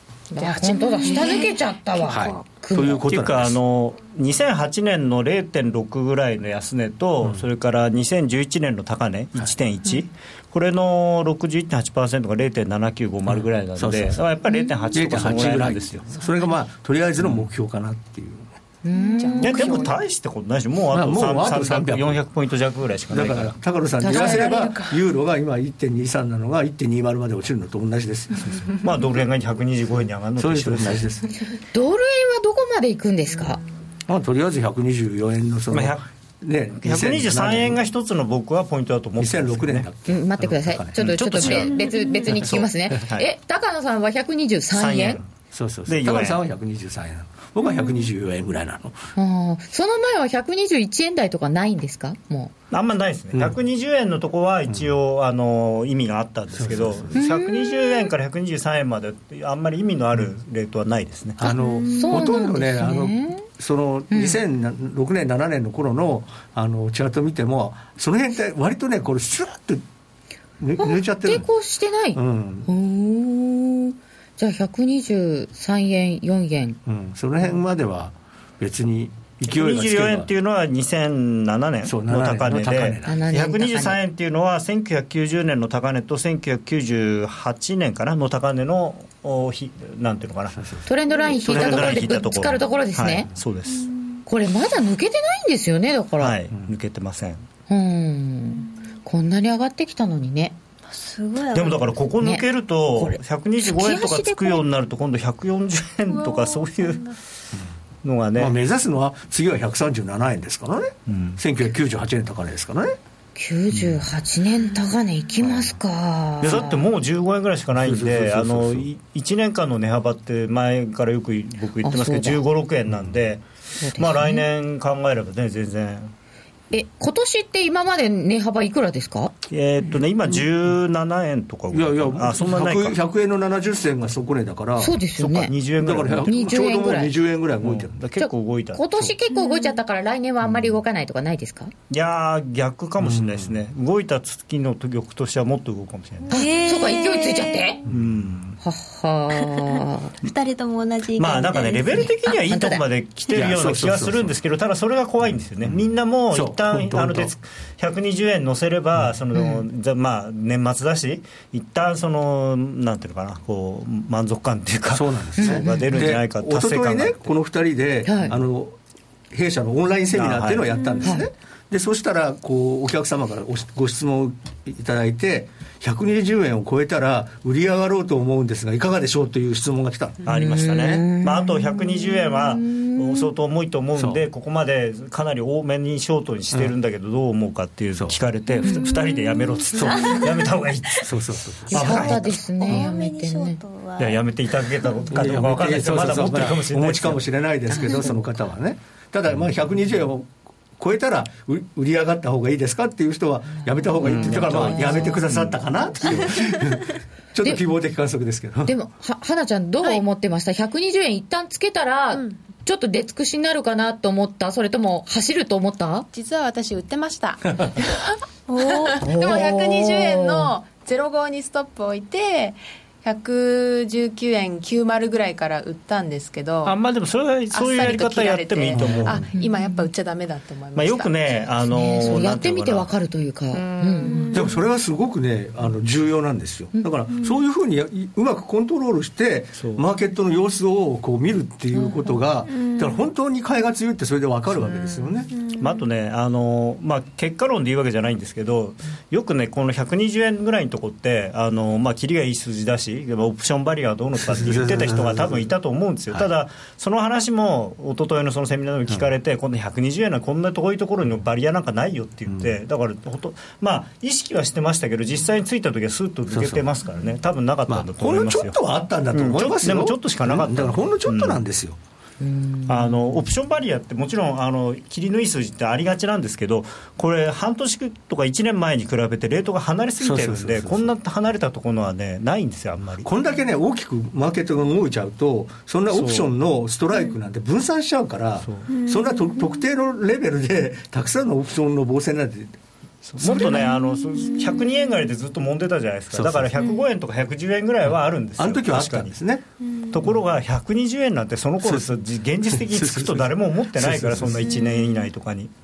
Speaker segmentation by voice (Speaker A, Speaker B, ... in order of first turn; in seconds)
Speaker A: 0.3-3.1, 18.8-19.9, 24.0-24.5, 31.7-33.6, 40.1-45.2, 49.1-52.5, 57.1-58.1, 61.9-63.5, 64.1-64.4, 70.8-76.8, 83.0-84.0, 90.8-93.3, 94.3-96.3, 97.7-100.5, 102.2-104.6, 113.3-116.8, 121.8-122.4, 123.8-124.4, 126.7-129.3, 134.8-135.5, 136.2-137.2, 138.2-141.7, 146.3-147.8, 148.6-150.1, 152.3-152.8, 159.3-159.6, 165.4-166.1, 168.0-168.3, 180.3-183.3, 191.7-193.6, 197.7-198.1, 204.0-205.2, 208.7-216.1, 219.0-220.5, 229.4-229.9, 231.7-234.3, 272.2-273.1
Speaker B: 0.4-1.5, 19.0-20.0, 24.0-25.0, 216.1-226.7, 227.5-231.4, 233.5-234.5, 244.7-245.1
Speaker C: 2.0-3.6, 13.3-14.2, 14.9-18.5, 20.9-22.2, 23.1-28.7, 30.4-31.3, 34.1-37.8, 39.2-41.0, 45.5-49.0, 56.5-57.1, 61.4-69.8, 70.6-71.5, 72.1-72.7, 76.8-80.3, 81.8-83.3, 90.5-90.9, 91.5-92.0, 108.4-113.0, 117.7-118.9, 122.9-123.2, 131.7-135.0, 135.8-137.9, 143.0-143.6, 147.9-148.3, 153.3-154.3, 155.6-157.3, 164.9-168.8, 169.3-181.0, 183.9-184.2, 189.7-190.2, 191.0-192.1, 195.1-208.7, 228.7-229.3, 234.3-245.3, 254.2-255.5, 266.3-266.6, 267.7-271.8, 280.0-280.9, 283.0-292.6, 293.2-293.7, 296.1-296.6, 298.4-299.4, 301.6-301.9, 302.5-304.5
Speaker D: 3.1-16.0, 19.4-23.6, 28.7-31.1, 35.7-36.0, 36.8-39.9, 40.9-43.2, 44.7-45.3, 45.9-46.4, 52.7-61.4, 79.5-90.6, 91.4-93.9, 96.2-97.4, 101.5-107.0, 108.0-108.5, 111.1-111.4, 113.7-114.0, 116.4-126.1, 129.5-133.0, 135.2-136.4, 137.6-138.8, 141.9-146.5, 147.9-148.6, 151.2-167.3, 170.1-170.8, 180.2-191.2, 191.7-192.8, 194.0-197.2, 204.0-206.3, 226.6-229.2, 230.7-232.9, 239.6-239.8, 245.6-268.6, 269.1-271.4, 272.7-283.1, 285.9-286.3, 293.1-299.1, 299.9-305.5
Speaker E: 41.5-42.4, 61.5-62.1, 93.7-94.2, 100.9-101.9, 106.1-107.1, 139.3-139.8, 146.3-147.8, 149.3-152.1, 170.8-171.1, 188.6-190.5, 191.9-195.1, 218.5-219.0, 234.0-234.5, 242.4-243.0, 245.3-245.8, 288.7-289.6, 293.4-295.1, 299.6-299.9, 304.5-305.1